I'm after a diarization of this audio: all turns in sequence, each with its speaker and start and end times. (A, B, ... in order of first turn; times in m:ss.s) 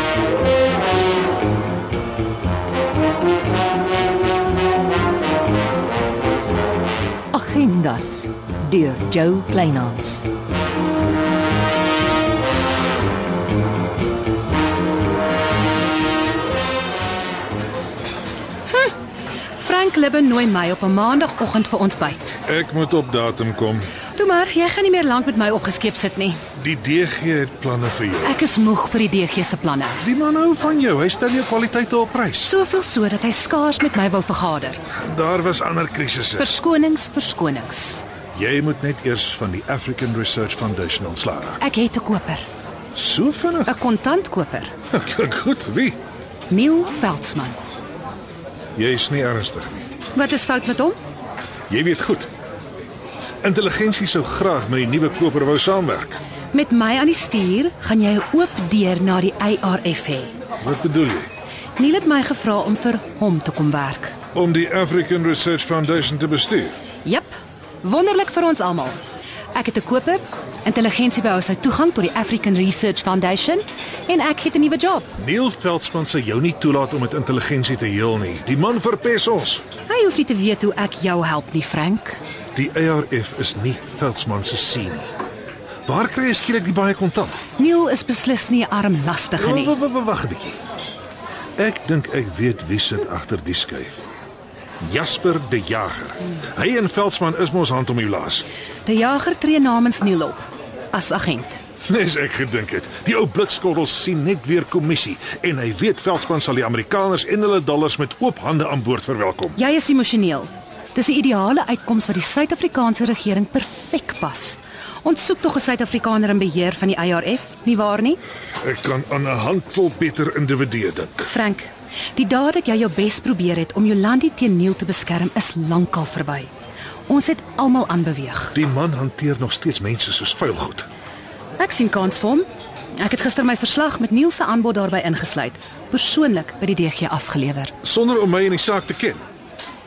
0:07.3-0:10.2 A
0:19.6-0:22.4 B
0:22.5-0:23.9 C
0:24.2-0:26.4 B
0:26.6-0:28.4 C
0:28.2-0:30.0 B
0:30.0-0:32.5 C
0:32.4-0:34.8 B
0:34.9-0:36.5 C
0:36.4-0:38.0 B
0:38.3-0:41.6 C
0:41.6-0:42.4 B
0:42.9-0:43.7 C
0:43.6-0:44.7 B
0:44.9-0:46.0 C
0:46.5-0:47.6 B
0:48.8-0:49.8 C
0:50.1-0:51.0 B
0:51.7-0:52.3 C
0:53.4-0:56.2 C
0:56.5-1:00.3 B
1:00.6-1:01.3 C
1:01.8-1:04.1 B
1:04.3-1:06.7 C
1:07.0-1:09.0 B
1:09.5-1:15.1 B
1:15.2-1:19.6 C
1:19.9-1:22.2 B
1:22.5-1:25.1 C
1:25.8-1:27.4 C
1:27.6-1:29.7 B
1:29.4-1:30.6 C
1:31.6-1:34.0 C
1:34.8-1:38.4 C
1:38.8-1:41.6 B
1:41.8-1:49.6 C
1:49.5-1:58.2 B
1:58.6-2:01.3 C
2:01.3-2:06.5 B
2:07.1-2:08.5 B
2:08.5-2:10.8 C
2:11.6-2:17.7 B
2:17.8-2:19.2 C